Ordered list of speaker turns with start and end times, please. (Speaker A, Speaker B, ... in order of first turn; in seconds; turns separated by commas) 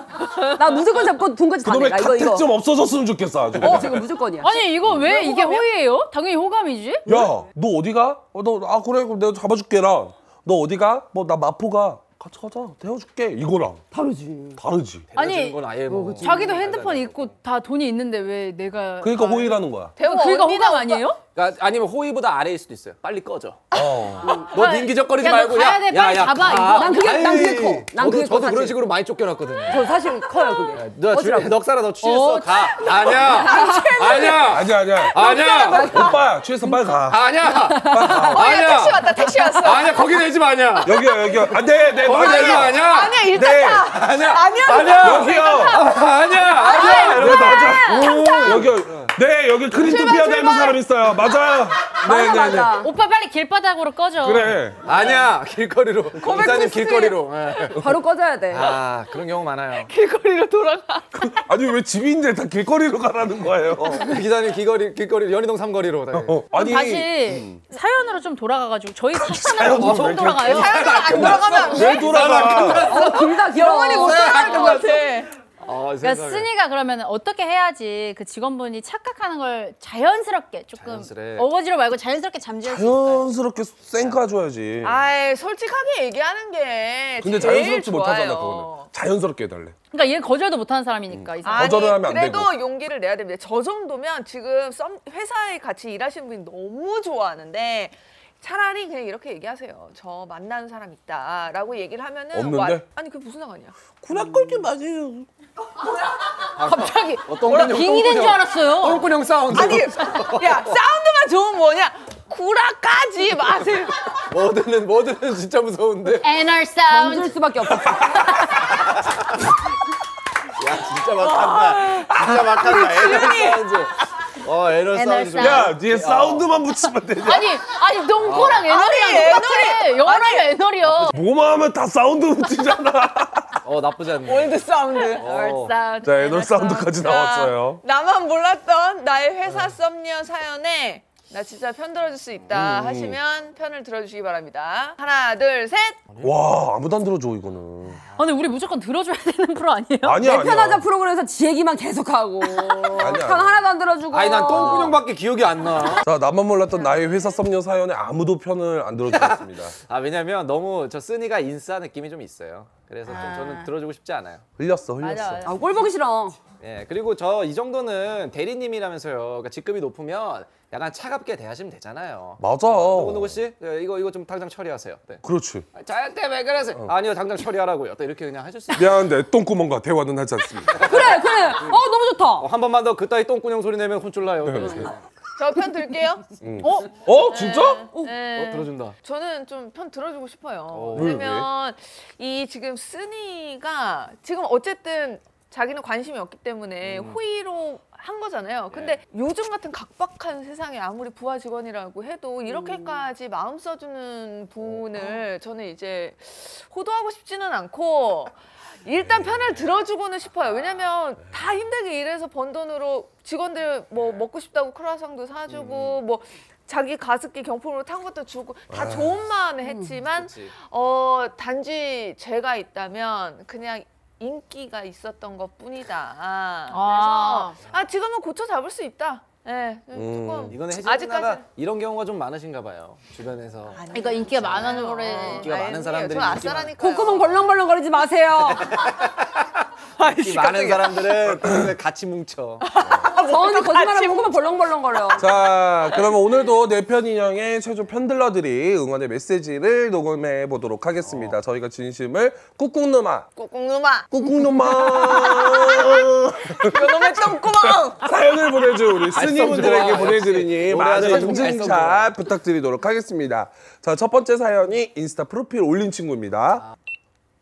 Speaker A: 0.3-2.5, Speaker B: 1.6-4.1, Speaker A: 3.6-4.6, Speaker C: 4.4-7.1, Speaker D: 5.0-5.7, Speaker B: 7.1-13.9, Speaker A: 13.9-14.6, Speaker B: 14.6-15.1, Speaker E: 15.1-17.3, Speaker C: 15.2-15.6, Speaker A: 15.9-16.6, Speaker C: 16.2-21.2, Speaker B: 19.0-19.9, Speaker D: 20.0-21.1, Speaker E: 21.4-23.6, Speaker D: 23.7-24.3, Speaker B: 23.7-24.4, Speaker E: 24.4-29.9, Speaker C: 24.5-27.3, Speaker A: 26.6-28.8, Speaker A: 29.7-31.6, Speaker E: 30.7-36.2, Speaker C: 32.0-33.1, Speaker A: 33.0-34.4, Speaker D: 33.3-34.6, Speaker B: 34.5-38.7, Speaker D: 35.2-36.0, Speaker A: 35.2-36.8, Speaker E: 37.1-39.1, Speaker A: 37.5-38.3, Speaker D: 38.3-40.2, Speaker E: 39.6-41.0, Speaker D: 40.8-48.6, Speaker B: 40.9-43.9, Speaker E: 42.0-43.3, Speaker E: 43.8-49.1, Speaker B: 45.0-45.8, Speaker B: 47.1-52.8, Speaker A: 47.5-48.6, Speaker A: 49.8-50.8, Speaker A: 52.0-52.9, Speaker C: 52.2-54.5, Speaker B: 54.2-54.9, Speaker E: 54.9-57.9, Speaker D: 56.2-57.2, Speaker A: 57.7-58.8, Speaker E: 58.5-59.9, Speaker D: 59.8-61.4, Speaker B: 61.2-64.1, Speaker E: 63.8-66.4, Speaker B: 66.1-67.6, Speaker C: 66.5-71.4, Speaker B: 69.1-73.0, Speaker E: 69.7-73.4, Speaker D: 70.5-75.3, Speaker A: 72.6-75.0, Speaker E: 74.4-74.7, Speaker C: 74.4-74.8, Speaker E: 75.6-76.5, Speaker C: 76.0-83.3, Speaker E: 80.8-81.5, Speaker B: 82.6-85.0, Speaker D: 84.8-88.9, Speaker B: 87.2-89.8, Speaker C: 89.9-91.9, Speaker B: 91.1-92.5, Speaker D: 91.4-103.8, Speaker B: 102.3-102.9, Speaker B: 104.0-105.3, Speaker E: 106.6-110.8, Speaker C: 106.6-109.1, Speaker D: 109.5-114.1, Speaker E: 114.3-116.3, Speaker C: 116.2-117.4, Speaker A: 116.9-118.4, Speaker B: 117.7-118.6, Speaker E: 118.6-119.4, Speaker E: 120.6-126.5, Speaker D: 121.2-123.7, Speaker C: 124.9-125.7, Speaker B: 125.4-127.6, Speaker C: 127.2-131.2, Speaker E: 128.2-128.7, Speaker D: 128.7-130.5, Speaker B: 130.9-133.6, Speaker E: 133.6-135.8, Speaker D: 134.2-135.3, Speaker C: 135.1-137.0, Speaker B: 136.0-137.8, Speaker D: 136.9-146.0, Speaker B: 142.5-143.2, Speaker E: 146.1-146.3, Speaker B: 146.2-148.0, Speaker C: 148.2-150.2, Speaker B: 150.0-150.9, Speaker A: 150.2-155.0, Speaker B: 153.0-153.7, Speaker E: 154.1-156.1, Speaker B: 156.0-159.8, Speaker E: 159.1-164.4, Speaker C: 163.1-163.7, Speaker B: 164.6-165.5, Speaker C: 165.0-165.6, Speaker A: 165.4-166.4, Speaker E: 166.6-175.2, Speaker B: 172.4-173.4, Speaker B: 175.2-175.7, Speaker E: 175.7-179.1, Speaker B: 178.7-181.1, Speaker E: 180.7-181.8, Speaker A: 180.7-182.5, Speaker E: 182.4-185.0, Speaker B: 184.4-184.9, Speaker D: 185.4-208.3, Speaker B: 186.4-187.9, Speaker E: 188.3-188.9, Speaker E: 190.7-191.2, Speaker B: 190.9-191.5, Speaker E: 196.8-197.2, Speaker E: 198.7-199.0, Speaker D: 208.8-231.4, Speaker B: 209.1-209.5, Speaker E: 215.5-216.0, Speaker B: 218.7-219.2, Speaker A: 219.7-219.9, Speaker E: 220.1-220.6, Speaker C: 226.7-227.6, Speaker B: 229.9-230.6, Speaker E: 230.5-233.8, Speaker D: 233.8-237.4, Speaker C: 233.9-235.5, Speaker E: 234.6-236.7, Speaker A: 236.8-238.8, Speaker E: 238.6-242.7, Speaker D: 240.0-241.3, Speaker D: 242.7-244.6, Speaker A: 243.1-245.3, Speaker B: 245.2-253.3, Speaker E: 251.0-251.4, Speaker D: 253.4-258.1, Speaker B: 254.1-266.6, Speaker E: 259.1-262.1